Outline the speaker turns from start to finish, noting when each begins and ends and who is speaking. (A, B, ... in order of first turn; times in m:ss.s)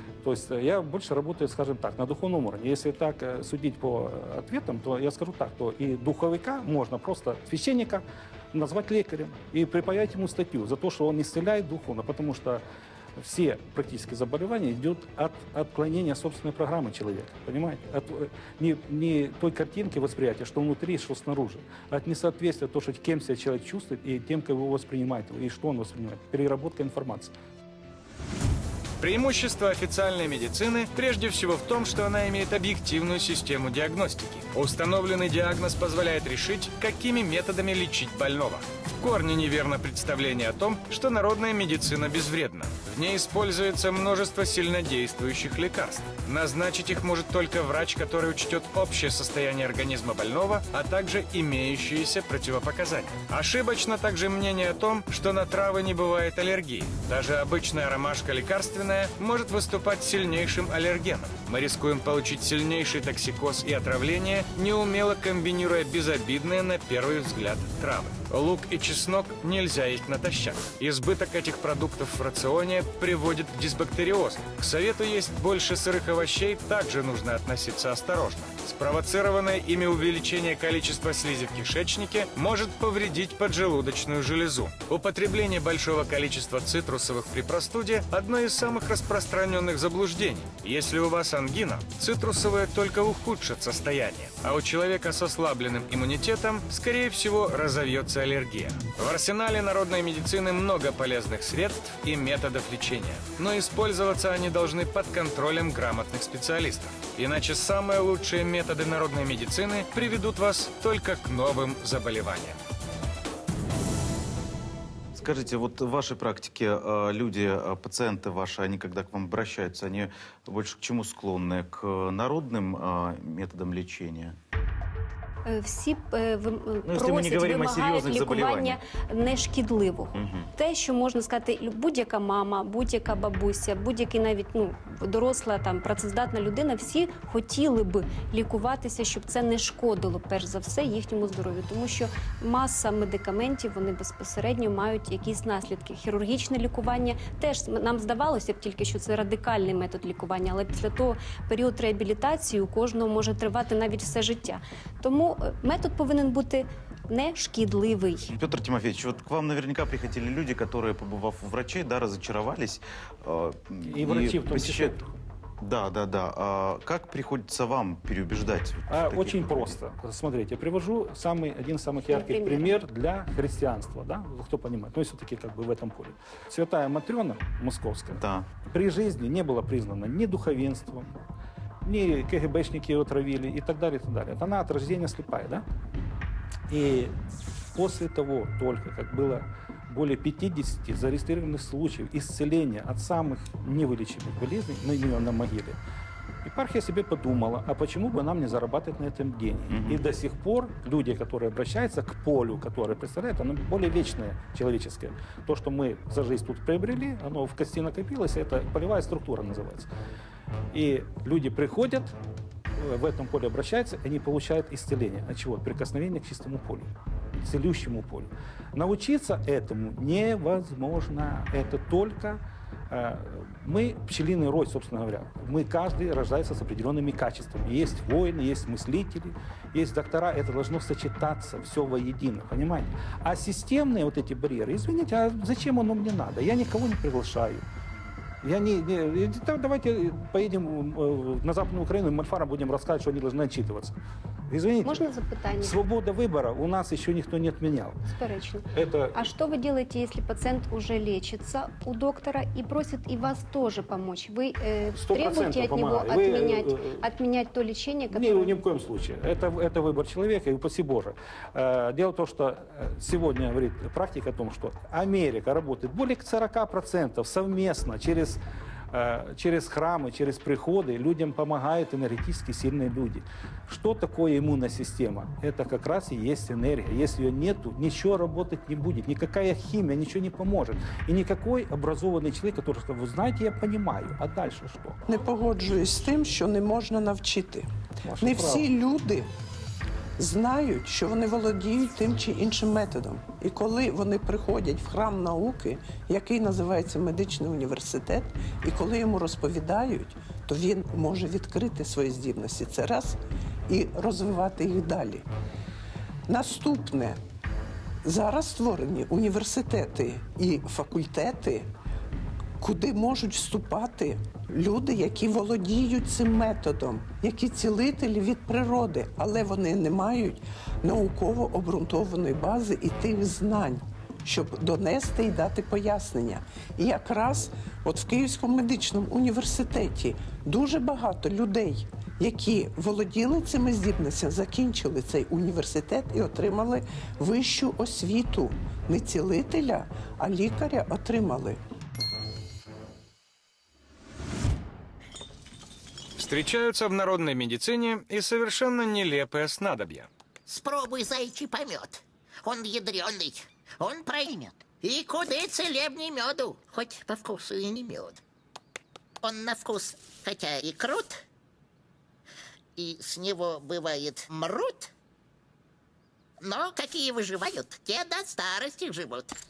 0:00.2-0:12.6 A
0:13.2-0:27.3 A
0:29.0-1:52.6 B
1:55.2-2:04.4 C
2:05.4-2:38.3 D
2:06.9-2:08.8 C
2:10.1-2:10.5 C
2:38.3-2:45.0 C
2:43.8-2:45.1 A
2:45.6-2:49.8 C
2:48.9-3:01.2 A
2:52.1-2:52.8 D
2:58.2-2:58.5 C
3:01.8-3:05.6 A
3:06.7-3:07.1 A
3:07.8-3:15.8 A
3:16.4-3:29.9 A
3:19.7-3:20.0 C
3:30.7-3:32.1 A
3:32.8-3:36.9 A
3:37.4-3:57.6 A
3:58.4-4:04.0 A
4:04.5-4:05.0 A
4:04.8-4:05.8 D
4:05.6-4:08.0 A
4:08.1-4:18.6 D
4:08.7-4:09.2 A
4:14.9-4:17.0 A
4:18.1-4:28.4 A
4:28.9-4:45.0 A
4:45.1-4:49.3 E
4:48.0-4:48.6 A
4:50.2-5:05.3 E
5:06.3-5:07.2 E
5:08.0-5:11.7 E
5:12.6-5:41.6 E
5:46.2-5:50.1 B
5:50.5-5:58.2 F
5:59.2-6:01.2 F
6:02.8-6:04.9 F
6:06.4-6:09.4 F